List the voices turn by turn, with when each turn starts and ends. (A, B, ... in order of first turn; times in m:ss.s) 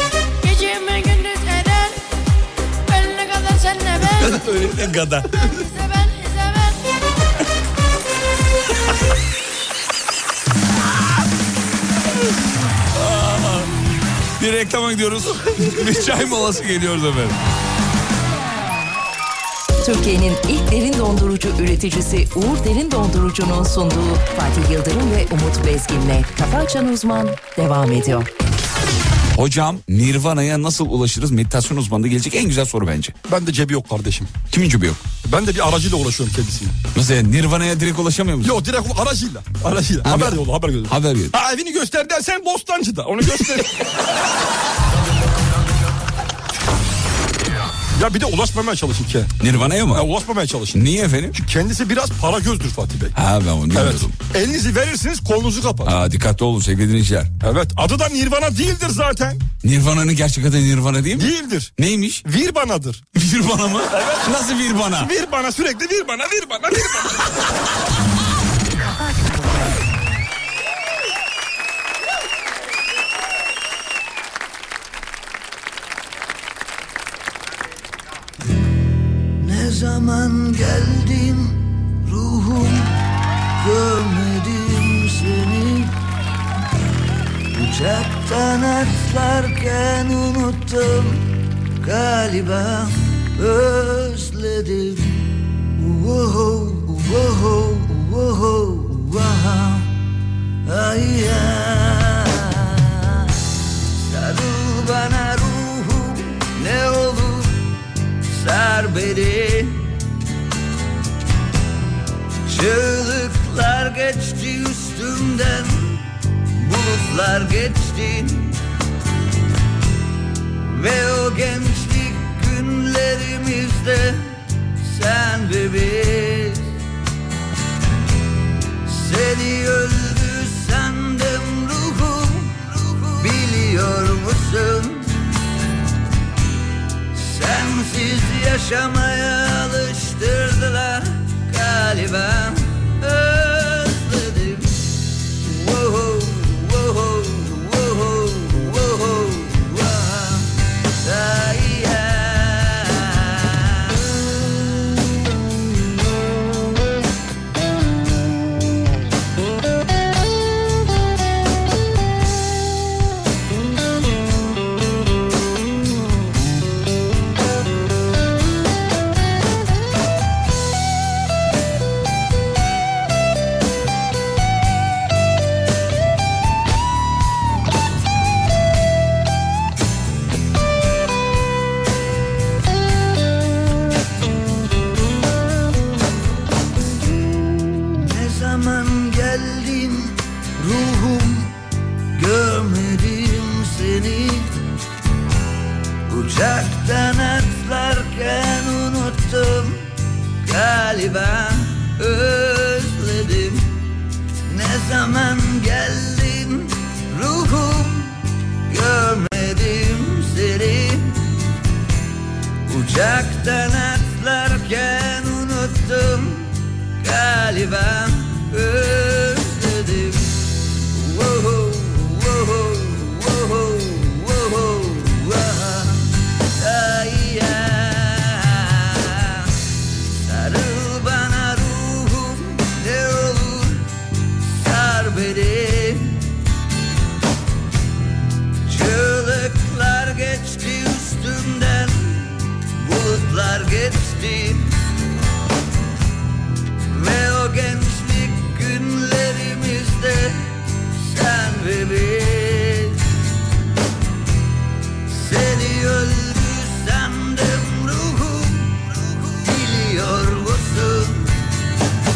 0:00.4-0:02.0 A
0:02.9-0:04.4 A
0:04.2-0:05.5 B
0:05.4-0:06.8 A
0:12.9-0:13.7 B
0:14.4-0:17.4 B
0:19.8-0:28.3 C
0:29.3-0:33.2 B
0:33.3-0:34.3 D
0:34.5-0:35.1 B
0:35.2-0:36.8 D
0:36.9-0:38.6 B
0:38.4-0:43.7 D
0:40.1-0:41.3 B
0:48.0-0:49.3 D
0:49.4-0:50.1 B
0:49.9-0:50.8 D
0:50.7-0:51.4 B
0:51.3-0:53.1 D
0:53.2-0:54.2 B
0:53.7-0:56.0 D
0:55.8-0:57.3 B
0:57.4-0:59.4 D
0:59.6-1:02.2 B
1:01.1-1:01.7 D
1:02.2-1:03.0 D
1:03.2-1:05.1 B
1:03.9-1:04.3 D
1:05.0-1:07.2 D
1:19.4-1:22.9 E
1:23.6-1:25.9 E
1:27.5-1:31.2 E
1:31.8-1:39.9 E
1:40.7-1:43.3 E
1:44.0-1:47.6 E
1:48.3-1:49.9 E
1:52.5-1:56.0 E
1:56.6-1:58.6 E
2:00.6-2:06.8 E
2:08.9-2:15.3 E
2:17.1-2:24.9 E
2:25.4-2:30.5 E
2:31.0-2:34.9 E
3:07.9-3:11.5 E
3:12.2-3:14.5 E
3:16.1-3:19.8 E
3:20.4-3:23.7 E
3:24.5-3:28.2 E
3:28.7-3:31.3 E
3:32.7-3:49.5 E
3:50.2-3:53.9 E
3:54.5-3:56.2 E
3:58.7-4:04.7 E
4:06.9-4:13.0 E
4:15.1-4:21.4 E